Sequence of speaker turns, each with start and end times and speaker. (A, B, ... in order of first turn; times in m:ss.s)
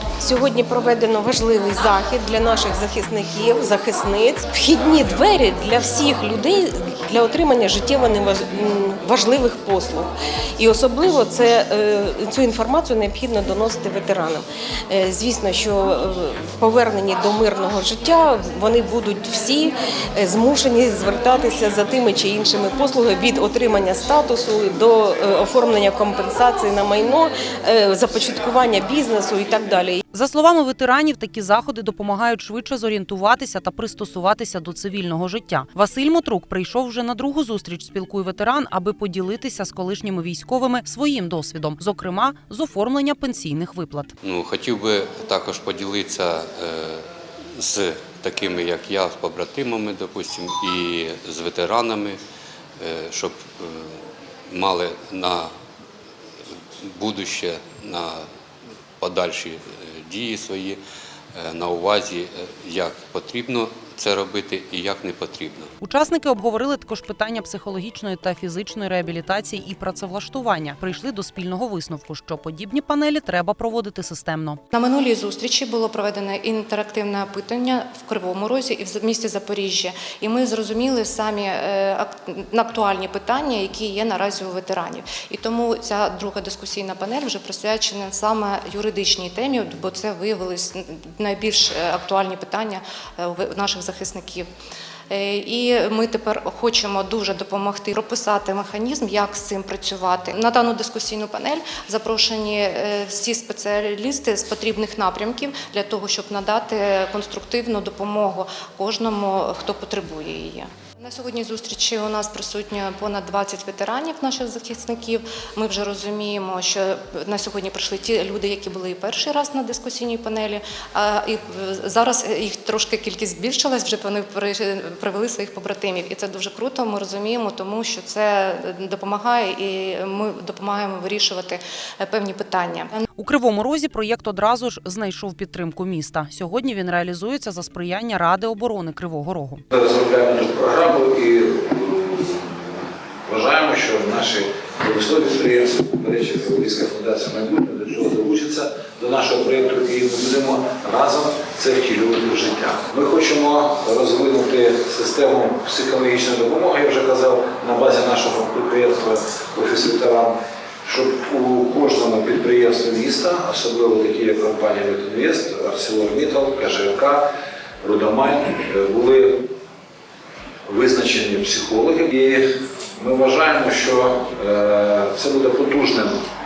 0:00.2-0:30.0 A
0:30.1-0:44.1 B
0:44.2-0:47.0 C
0:47.6-0:52.2 C
0:52.8-0:53.9 C
0:54.5-0:55.5 C
0:56.9-0:58.2 C
0:59.0-1:00.8 C
1:01.4-1:05.7 C
1:05.8-1:14.6 B
1:14.7-1:34.5 D
1:35.1-2:12.9 D
2:13.2-2:19.6 B
2:19.7-2:47.3 E
2:47.8-2:49.4 E
2:50.7-2:52.4 E
2:53.0-2:56.1 E